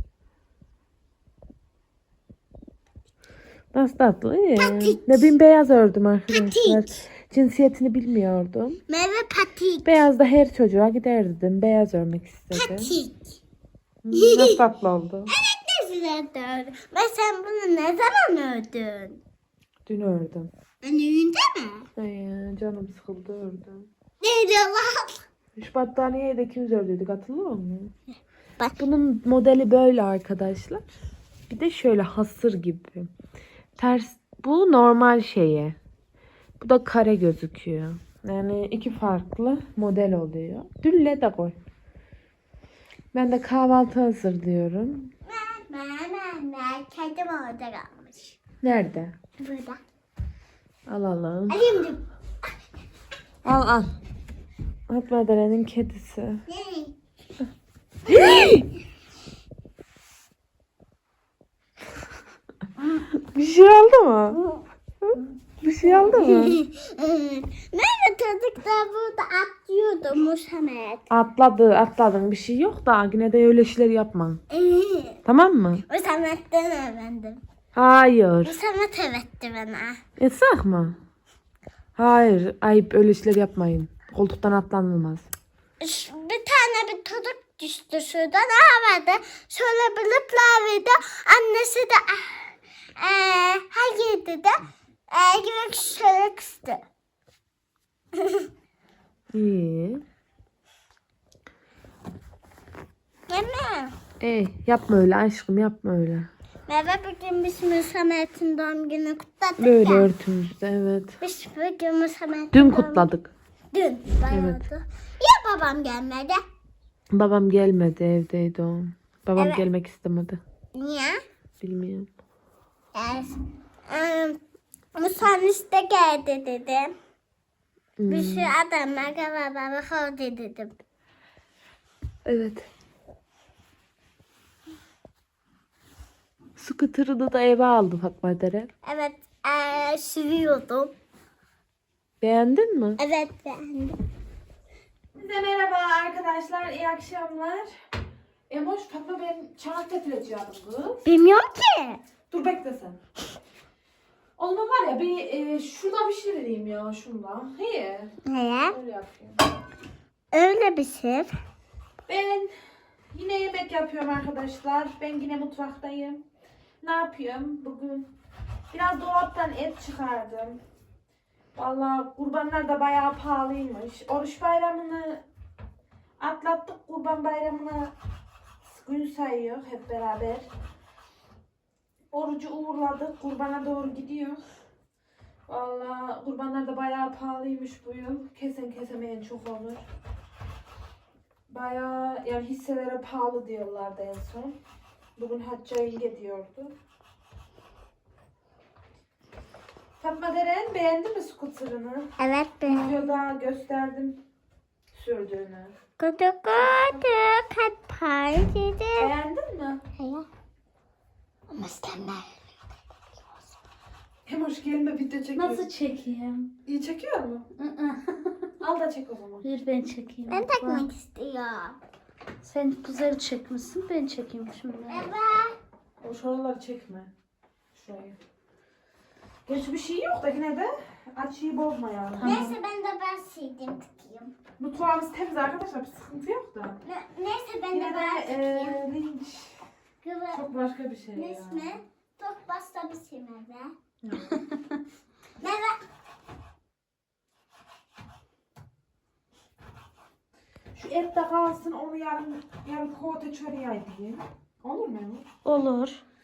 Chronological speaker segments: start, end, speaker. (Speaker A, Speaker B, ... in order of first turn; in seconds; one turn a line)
Speaker A: 3.7-8.8
Speaker B: 4.5-5.3
Speaker B: 6.3-7.0
Speaker B: 8.9-9.9
Speaker A: 9.8-13.0
Speaker B: 12.5-13.4
Speaker A: 14.0-15.3
Speaker B: 14.1-14.6
Speaker B: 15.3-19.2
Speaker A: 19.9-20.5
Speaker B: 20.8-21.9
Speaker A: 22.0-23.9
Speaker B: 24.2-25.3
Speaker A: 25.6-27.9
Speaker A: 28.8-30.9
Speaker A: 31.5-33.1
Speaker A: 33.8-35.8
Speaker A: 36.6-41.6
Speaker A: 43.1-45.1
Speaker B: 45.3-48.4
Speaker A: 48.6-49.1
Speaker B: 49.4-49.8
Speaker A: 50.9-51.7
Speaker B: 51.5-52.5
Speaker A: 53.4-53.9
Speaker A: 54.9-56.4
Speaker B: 56.5-57.0
Speaker B: 58.1-58.6
Speaker A: 58.1-58.7
Speaker A: 63.1-64.4
Speaker A: 65.0-66.6
Speaker B: 65.8-71.1
Speaker A: 71.1-74.4
Speaker B: 74.5-75.2
Speaker A: 75.2-75.8
Speaker B: 75.9-77.4
Speaker A: 77.8-78.6
Speaker B: 78.4-80.0
Speaker A: 80.2-81.0
Speaker A: 82.0-85.3
Speaker B: 85.8-96.8
Speaker B: 98.1-98.5
Speaker A: 99.3-100.0
Speaker B: 103.3-104.0
Speaker A: 104.2-106.3
Speaker B: 106.7-110.1
Speaker A: 109.6-111.2
Speaker B: 111.2-113.1
Speaker A: 112.5-113.3
Speaker B: 113.7-116.4
Speaker A: 114.2-114.6
Speaker A: 117.1-120.4
Speaker B: 119.3-119.7
Speaker B: 120.8-121.2
Speaker A: 121.6-122.1
Speaker B: 123.0-124.4
Speaker B: 125.0-126.9
Speaker A: 128.0-128.5
Speaker B: 128.1-130.8
Speaker A: 132.2-132.7
Speaker A: 136.6-138.7
Speaker B: 138.8-140.9
Speaker A: 142.2-143.0
Speaker B: 143.0-144.0
Speaker A: 145.2-147.7
Speaker A: 148.5-151.1
Speaker B: 151.1-152.0
Speaker A: 152.3-153.0
Speaker A: 154.4-158.2
Speaker B: 158.2-158.8
Speaker A: 158.7-159.4
Speaker B: 160.3-161.3
Speaker A: 162.1-162.6
Speaker A: 163.1-166.2
Speaker A: 166.8-168.1
Speaker A: 168.7-170.6
Speaker A: 171.6-175.2
Speaker A: 176.2-177.9
Speaker A: 178.6-180.5
Speaker A: 182.1-184.4
Speaker A: 185.5-189.8
Speaker A: 191.5-194.6
Speaker A: 195.2-196.7
Speaker A: 200.0-202.1
Speaker B: 202.2-203.0
Speaker A: 202.7-204.2
Speaker A: 204.9-205.7
Speaker B: 206.0-209.1
Speaker A: 206.7-207.1
Speaker A: 209.0-209.8
Speaker B: 210.0-210.3
Speaker B: 211.5-212.5
Speaker A: 214.3-215.7
Speaker C: 215.3-216.5
Speaker A: 216.7-217.5
Speaker C: 217.6-218.5
Speaker A: 218.6-219.4
Speaker C: 219.4-220.9
Speaker B: 220.3-221.8
Speaker C: 222.4-225.1
Speaker B: 224.9-225.6
Speaker A: 226.0-227.1
Speaker A: 227.7-228.2
Speaker A: 229.5-232.5
Speaker C: 232.2-232.6
Speaker B: 232.2-234.3
Speaker A: 234.6-236.8
Speaker B: 236.8-238.8
Speaker A: 237.7-239.6
Speaker B: 240.0-240.4
Speaker A: 240.3-241.7
Speaker B: 241.1-243.7
Speaker A: 244.0-244.4
Speaker B: 245.4-245.8
Speaker A: 250.7-255.3
Speaker C: 255.4-256.0